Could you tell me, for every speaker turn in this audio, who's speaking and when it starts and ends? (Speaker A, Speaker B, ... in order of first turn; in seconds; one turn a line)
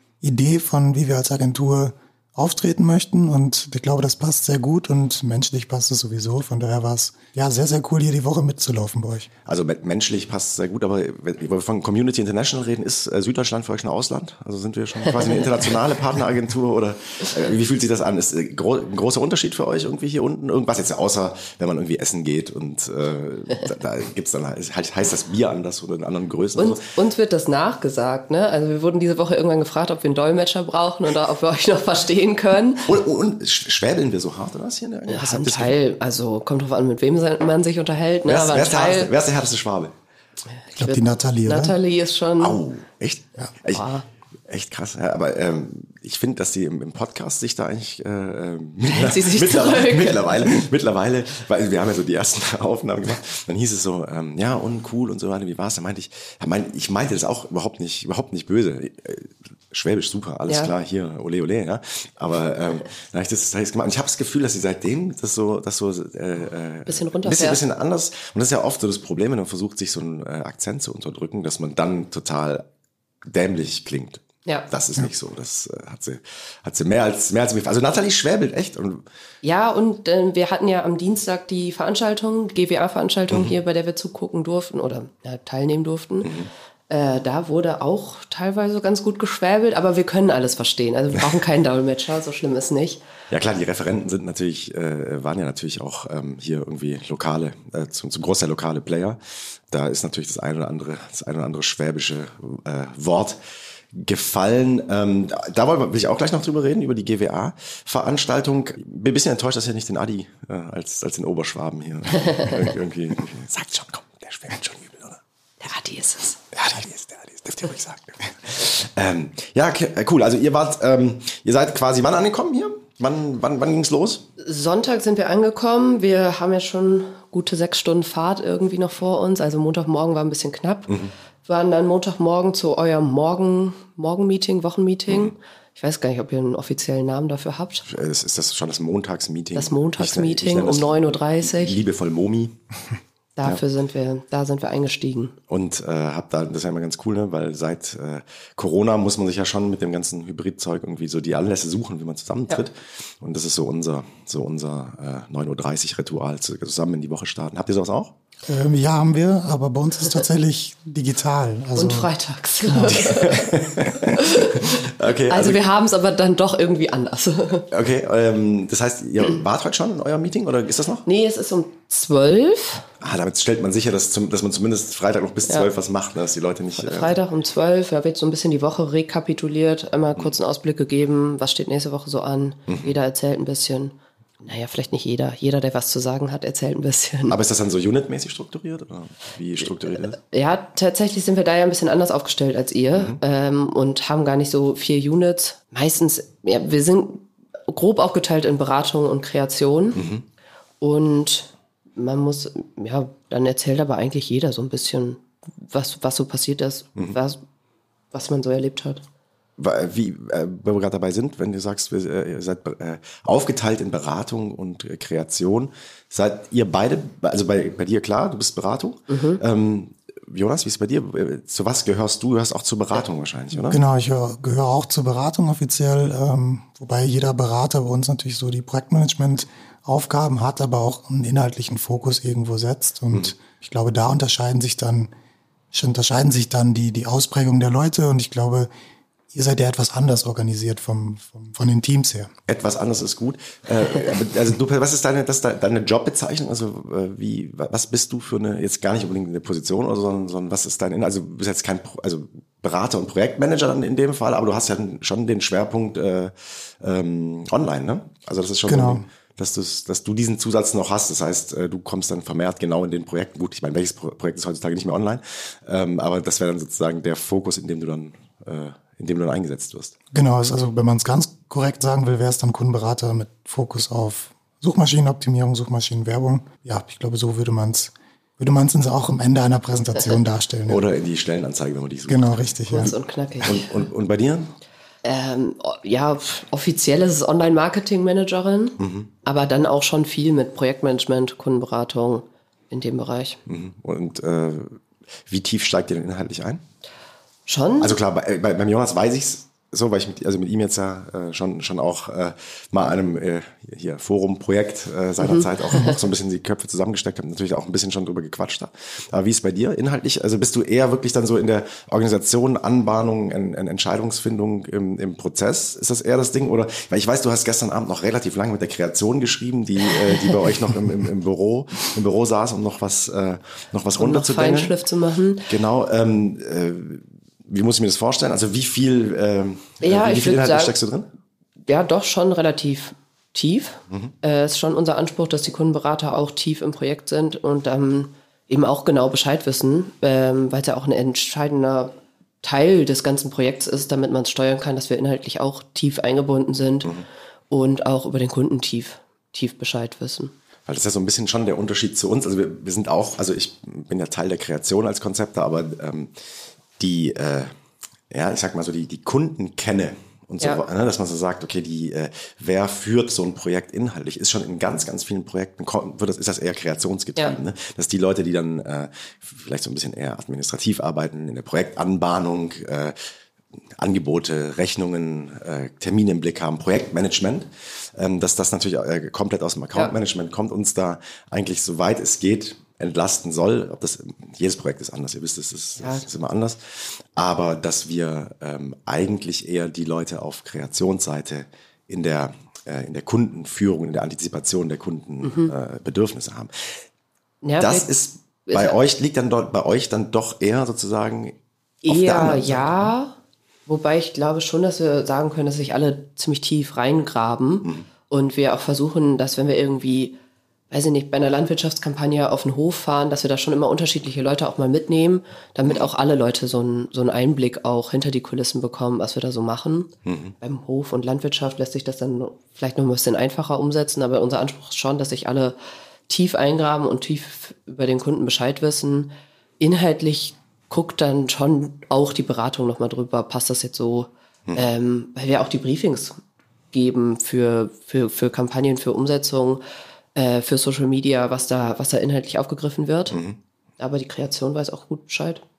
Speaker A: 0.2-9.3
Speaker B: 9.5-26.8
Speaker C: 26.6-32.9
Speaker B: 32.9-35.8
Speaker C: 35.1-39.1
Speaker B: 38.3-39.9
Speaker C: 40.6-42.6
Speaker A: 40.8-41.8
Speaker B: 42.4-43.9
Speaker C: 43.6-44.0
Speaker B: 44.5-72.7
Speaker C: 48.9-50.5
Speaker C: 66.9-67.6
Speaker B: 73.2-79.0
Speaker C: 79.4-86.4
Speaker B: 86.2-86.5
Speaker C: 86.9-93.0
Speaker B: 93.3-99.2
Speaker B: 99.7-103.4
Speaker B: 103.9-115.2
Speaker C: 115.6-116.4
Speaker B: 116.5-124.2
Speaker C: 124.4-137.9
Speaker B: 137.9-142.6
Speaker C: 139.6-141.8
Speaker C: 143.4-145.4
Speaker B: 145.5-158.1
Speaker A: 158.5-162.1
Speaker C: 161.8-167.7
Speaker B: 162.8-165.6
Speaker B: 167.7-171.1
Speaker C: 171.1-172.9
Speaker B: 173.0-177.2
Speaker C: 176.8-187.4
Speaker B: 182.7-182.9
Speaker B: 187.3-190.2
Speaker C: 190.2-200.0
Speaker B: 192.9-193.2
Speaker B: 199.9-200.2
Speaker C: 200.8-207.4
Speaker C: 208.1-209.0
Speaker B: 209.6-223.8
Speaker C: 219.1-219.4
Speaker A: 223.7-235.1
Speaker A: 235.7-238.7
Speaker A: 239.3-242.3
Speaker B: 242.5-269.9
Speaker A: 258.7-259.1
Speaker A: 270.1-280.8
Speaker B: 280.7-282.6
Speaker A: 282.1-282.9
Speaker C: 282.7-283.8
Speaker B: 283.4-284.5
Speaker C: 285.0-293.4
Speaker B: 288.8-289.1
Speaker B: 293.5-296.6
Speaker C: 297.5-298.0
Speaker B: 297.8-324.7
Speaker C: 305.2-305.9
Speaker C: 324.0-325.5
Speaker B: 325.5-331.1
Speaker C: 329.8-330.8
Speaker C: 331.7-346.9
Speaker C: 347.5-350.3
Speaker B: 350.7-356.1
Speaker B: 356.8-357.5
Speaker B: 358.1-373.0
Speaker B: 373.8-396.7
Speaker C: 395.2-395.5
Speaker C: 397.4-397.9
Speaker B: 397.6-401.4
Speaker C: 398.5-398.8
Speaker C: 401.8-403.1
Speaker B: 401.9-402.9
Speaker C: 403.7-410.1
Speaker C: 410.7-425.6
Speaker B: 420.1-420.3
Speaker C: 426.1-436.2
Speaker C: 436.7-439.6
Speaker C: 440.1-443.2
Speaker B: 443.1-443.4
Speaker C: 443.8-445.4